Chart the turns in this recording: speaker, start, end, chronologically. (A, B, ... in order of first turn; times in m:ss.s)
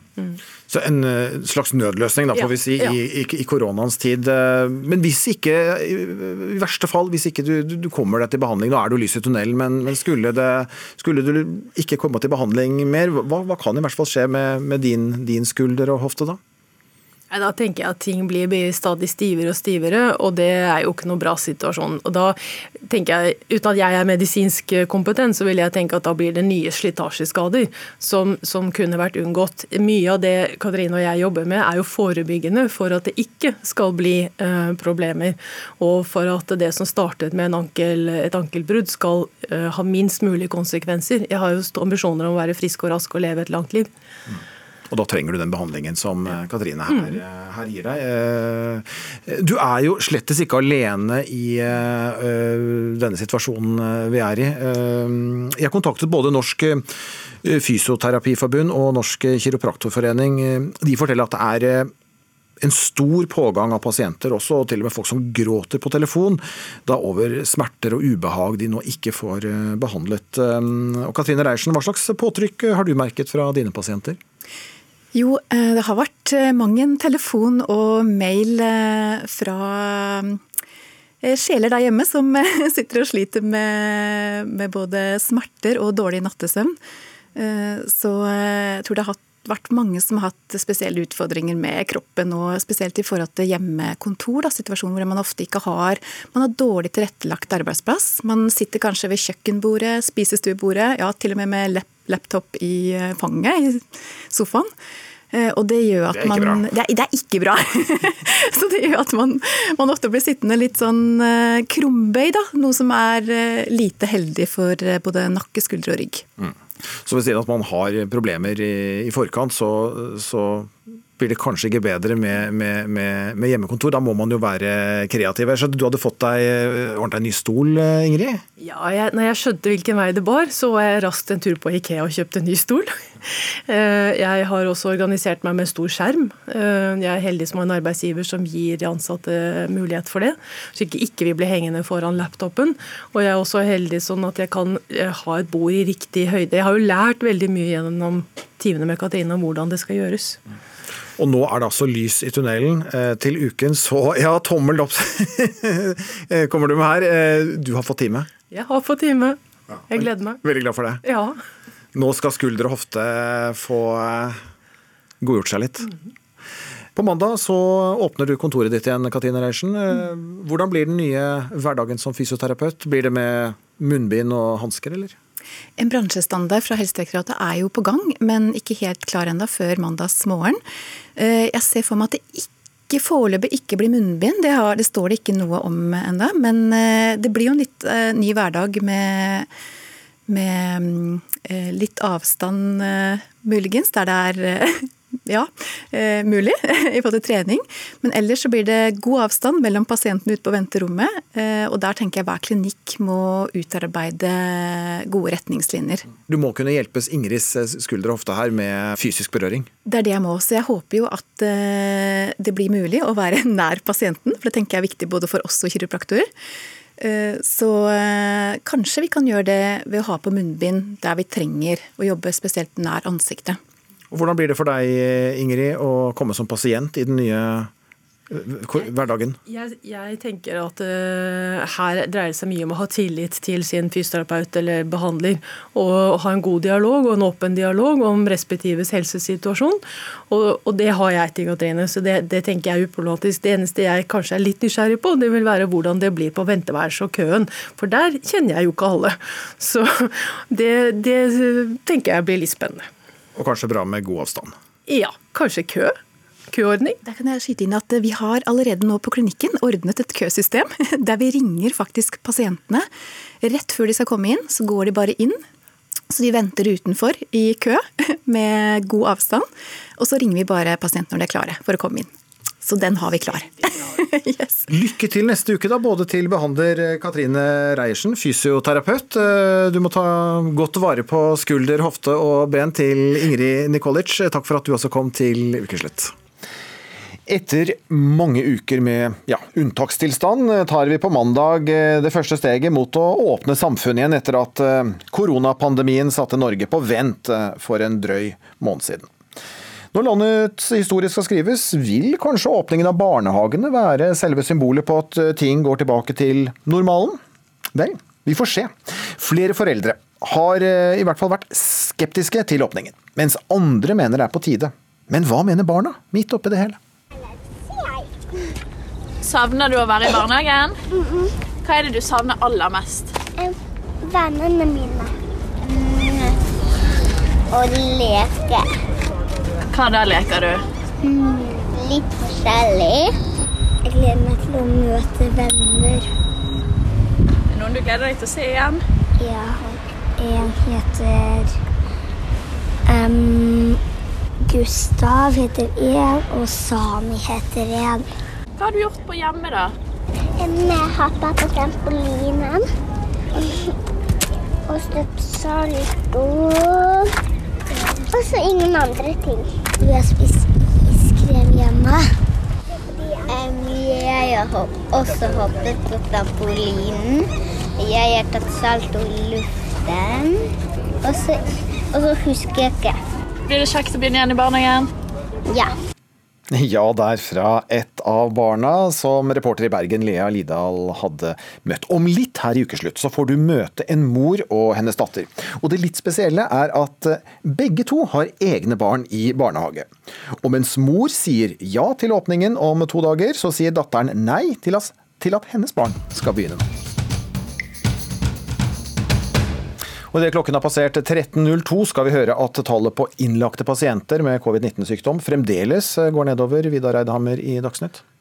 0:00.7-0:16.4 A
0:02.4-0:03.0 B
0:17.3-0:43.9 B
0:44.3-0:56.9 A
0:57.4-1:01.9 A
1:02.6-1:14.2 A
1:15.1-1:20.4 C
1:21.2-1:26.8 C
1:27.4-1:44.7 C
1:45.3-1:56.3 C
1:46.1-1:46.6 A
1:56.4-2:08.4 A
2:08.6-2:30.4 B
2:31.2-2:38.3 A
2:38.5-2:39.4 B
2:39.7-2:41.0 A
2:39.9-2:40.4 B
2:41.0-2:41.4 B
2:41.9-2:44.4 A
2:45.2-2:45.9 A
2:47.0-2:55.2 A
2:55.8-3:00.6 C
3:01.2-3:09.5 C
3:10.3-3:26.1 C
3:26.3-3:29.7 A
3:29.9-3:36.3 C
3:37.0-3:43.6 C
3:44.1-3:47.7 A
3:48.3-3:49.4 A
3:49.5-4:12.9 B
4:13.4-4:14.6 A
4:14.9-4:16.0 B
4:16.5-4:17.0 B
4:17.0-4:22.9 C
4:23.4-4:25.4 C
4:26.1-4:32.1 C
4:32.6-4:34.7 C
4:34.7-4:46.1 A
4:47.3-4:59.1 A
4:59.9-5:07.2 A
5:07.7-5:16.8 A
5:17.6-5:18.2 D
5:19.2-5:20.8 E
5:20.9-5:21.3 D
5:21.6-5:23.2 E
5:23.4-5:26.4 D
5:27.5-5:28.7 D
5:29.7-5:30.6 E
5:31.0-5:33.2 D
5:33.8-5:36.1 D
5:37.5-5:38.8 E
5:39.2-5:41.6 D
5:42.9-5:43.8 D
5:44.5-5:48.1 D
5:48.6-5:49.8 E
5:50.4-5:52.7 D
5:53.4-5:53.7 D
5:54.7-5:57.1 D
5:57.7-6:02.2 D
6:02.9-6:10.5 D
6:11.0-6:13.0 D
6:13.5-6:14.9 E
6:15.5-6:15.7 D
6:16.5-6:36.7 A
6:40.1-6:48.0 A